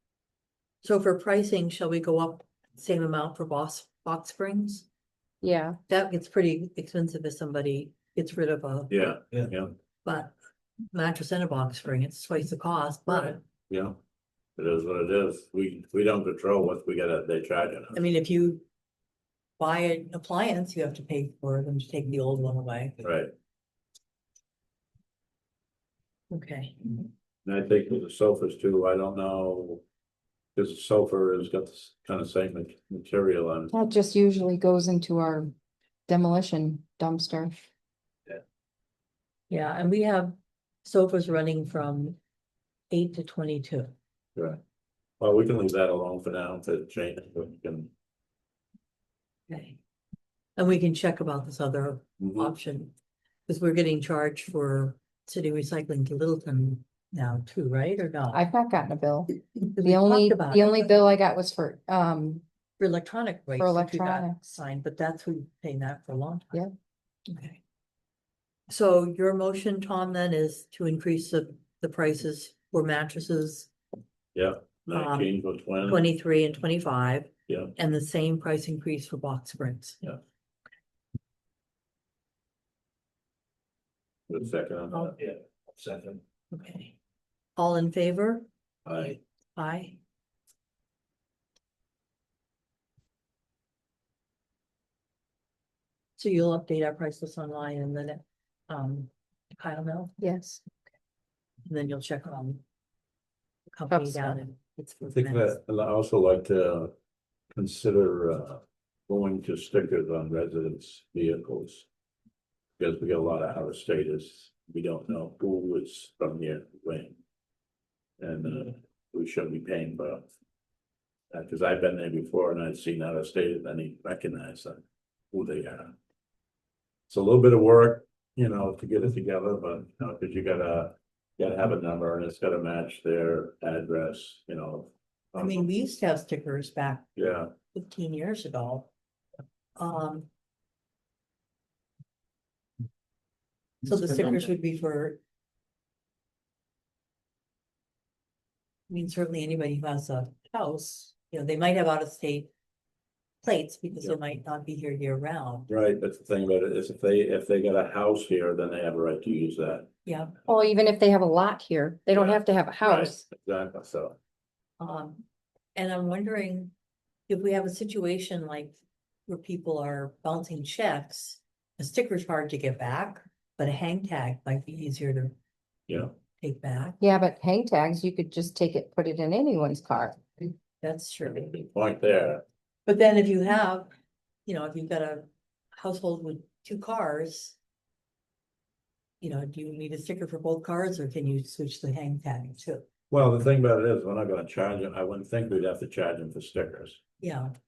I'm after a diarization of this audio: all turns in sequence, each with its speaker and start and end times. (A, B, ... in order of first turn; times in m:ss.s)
0:00.8-0:04.9 A
0:05.4-0:05.8 B
0:05.9-0:09.0 A
0:08.9-0:09.7 C
0:10.0-0:10.3 A
0:10.9-0:13.4 A
0:13.1-0:14.0 C
0:14.6-0:18.0 C
0:17.9-0:18.6 A
0:19.6-0:23.0 A
0:23.0-0:23.3 C
0:26.3-0:27.0 A
0:27.4-0:29.8 C
0:30.6-0:33.7 C
0:33.7-0:35.5 B
0:36.1-0:37.5 B
0:39.5-0:42.2 A
0:42.9-0:43.9 A
0:45.2-0:47.9 C
0:49.5-0:49.8 A
0:50.6-0:52.9 A
0:52.2-0:52.5 C
0:53.5-0:58.4 A
0:58.3-1:02.4 B
0:59.6-1:00.8 A
1:02.8-1:06.6 A
1:03.6-1:04.4 B
1:07.3-1:07.6 A
1:08.7-1:13.7 A
1:14.4-1:16.1 C
1:14.9-1:20.0 A
1:24.3-1:25.2 C
1:26.5-1:26.9 A
1:27.6-1:28.5 A
1:28.9-1:29.2 C
1:29.6-1:30.0 A
1:36.2-1:40.1 A
1:40.2-1:40.6 B
1:41.7-1:42.6 A
1:43.7-1:45.6 A
1:43.9-1:44.4 B
1:45.1-1:46.9 C
1:47.5-1:51.9 C
1:52.8-1:57.2 C
1:58.2-2:00.3 C
2:01.3-2:05.9 C
2:07.1-2:15.7 C
2:15.4-2:17.1 A
2:17.2-2:17.5 C
2:17.7-2:18.9 A
2:19.8-2:20.3 A
2:23.8-2:25.2 A
2:28.9-2:32.5 A
2:33.4-2:35.7 A
2:35.7-2:39.9 C
2:40.1-2:40.3 A
2:40.5-2:43.2 B
2:42.1-2:44.2 C
2:44.8-2:45.2 A
2:45.8-2:46.7 A
2:47.3-2:55.4 A
2:55.9-2:56.1 C
2:56.4-2:57.0 A
2:57.0-3:00.2 B
3:00.8-3:01.5 A
3:01.3-3:02.4 C
3:02.9-3:03.9 A
3:04.5-3:07.6 A
3:09.2-3:12.8 A
3:13.1-3:17.0 C
3:17.2-3:17.6 A